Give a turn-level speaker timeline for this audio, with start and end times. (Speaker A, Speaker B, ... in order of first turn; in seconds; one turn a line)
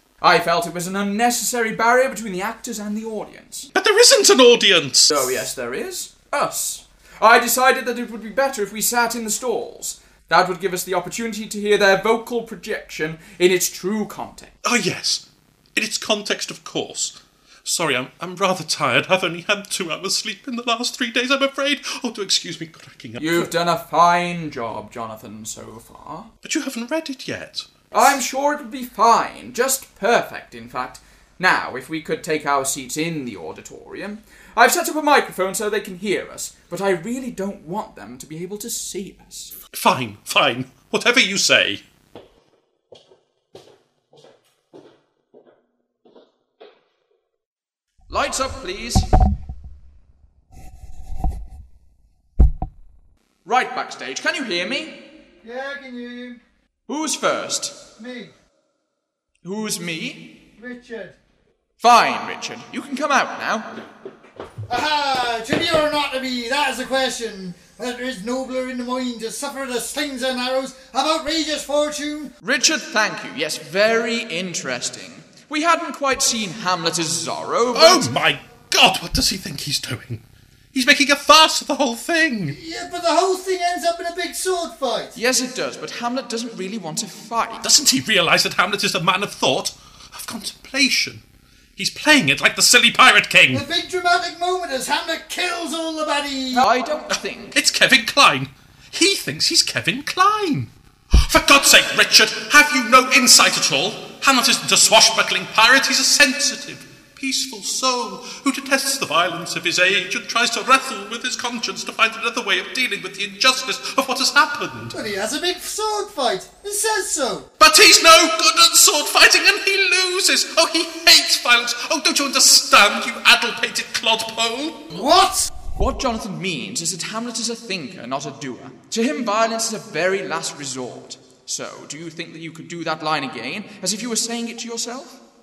Speaker A: 0.2-3.7
Speaker B: 3.8-5.4
Speaker A: 5.1-14.5
Speaker B: 14.6-15.2
Speaker B: 15.8-23.5
Speaker A: 23.2-26.3
Speaker B: 26.4-27.7
Speaker A: 27.9-39.5
Speaker B: 39.7-41.8
Speaker A: 48.1-49.1
Speaker A: 53.5-55.0
Speaker C: 55.4-56.4
Speaker A: 56.9-57.8
Speaker C: 58.0-58.3
Speaker A: 59.4-60.4
Speaker C: 60.6-61.1
Speaker A: 61.8-63.7
Speaker C: 64.7-72.3
Speaker A: 72.4-78.2
Speaker B: 77.7-80.2
Speaker B: 80.7-82.6
Speaker C: 82.6-85.1
Speaker A: 85.2-87.6
Speaker B: 87.6-91.2
Speaker B: 91.8-93.7
Speaker C: 93.5-96.7
Speaker A: 96.5-97.6
Speaker B: 97.5-100.7
Speaker B: 101.2-115.0
Speaker C: 115.0-117.5
Speaker B: 117.6-124.9
Speaker C: 124.9-125.5
Speaker A: 125.8-135.2